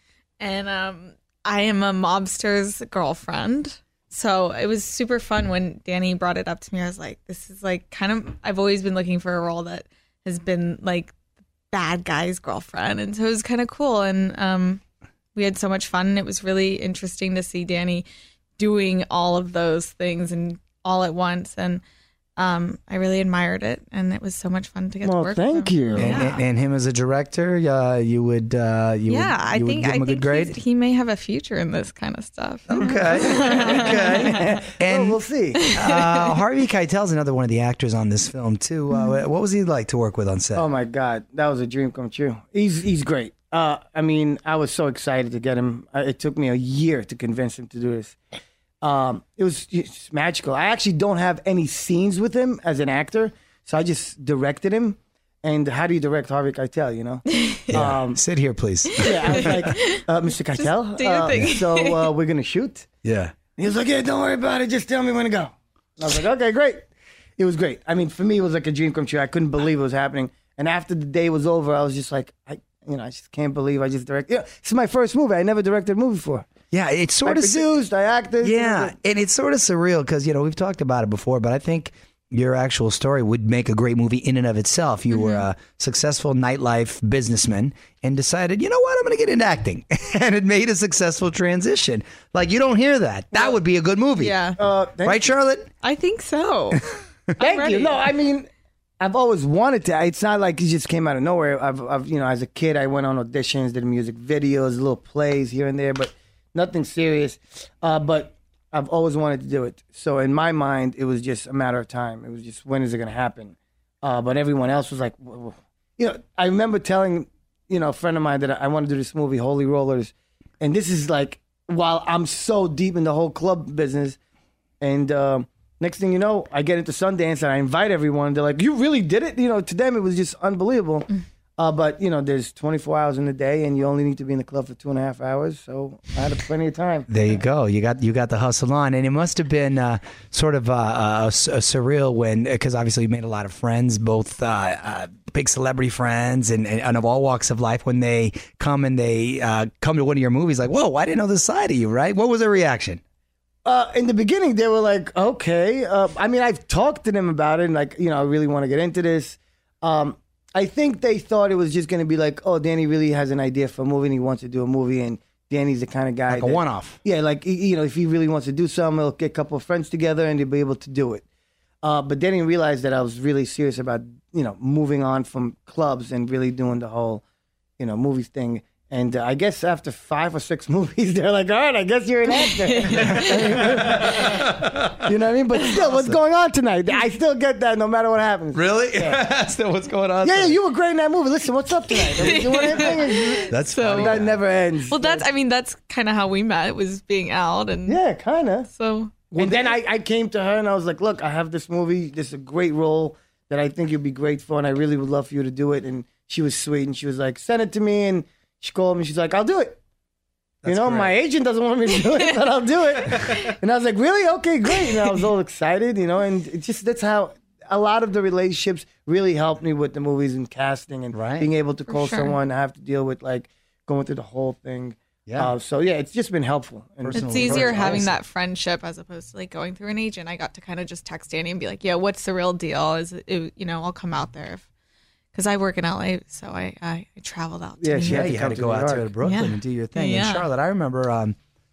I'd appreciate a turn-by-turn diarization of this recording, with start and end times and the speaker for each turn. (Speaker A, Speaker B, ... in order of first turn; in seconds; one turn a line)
Speaker A: 0.4-11.1
Speaker A: 11.7-14.8
Speaker A: 15.3-18.1
Speaker A: 18.6-21.8
Speaker A: 22.4-26.4
Speaker B: 25.0-26.2
Speaker C: 25.9-30.6
Speaker A: 29.1-34.4
Speaker C: 32.7-40.6
Speaker B: 33.7-35.6
Speaker A: 35.6-36.4
Speaker A: 38.9-39.2
Speaker B: 40.5-48.2
Speaker B: 48.8-58.2
Speaker A: 57.3-57.7
Speaker C: 57.7-59.7
Speaker B: 59.0-62.9
Speaker A: 59.1-62.1
Speaker C: 61.3-61.5
Speaker C: 63.0-63.3
Speaker B: 63.6-66.8
Speaker B: 67.4-76.5
Speaker C: 76.7-77.7
Speaker B: 77.2-78.9
Speaker C: 78.4-95.7
Speaker A: 85.1-85.5
Speaker A: 94.2-94.6
Speaker B: 94.6-95.4
Speaker A: 95.8-98.0
Speaker B: 97.4-98.5
Speaker B: 99.0-124.2
Speaker B: 124.8-137.1
Speaker C: 137.1-153.0
Speaker B: 153.7-171.2
Speaker C: 166.3-167.0
Speaker B: 171.8-177.2
Speaker B: 177.8-184.4
Speaker A: 182.4-183.4
Speaker C: 182.9-184.9
Speaker B: 185.0-189.2
Speaker C: 185.7-186.2
Speaker C: 188.5-190.6
Speaker B: 190.2-195.3
Speaker A: 191.9-194.2
Speaker C: 192.3-192.9
Speaker C: 193.5-194.4
Speaker A: 194.9-198.0
Speaker B: 197.9-198.7
Speaker A: 198.7-199.1
Speaker B: 199.3-209.8
Speaker C: 199.4-199.7
Speaker C: 210.6-211.1
Speaker B: 210.7-228.1
Speaker C: 221.1-221.5
Speaker A: 221.9-222.4
Speaker C: 225.3-225.5
Speaker C: 227.0-228.2
Speaker A: 227.1-234.6
Speaker A: 235.3-238.3
Speaker B: 237.8-239.1
Speaker C: 238.0-241.4
Speaker A: 239.2-240.5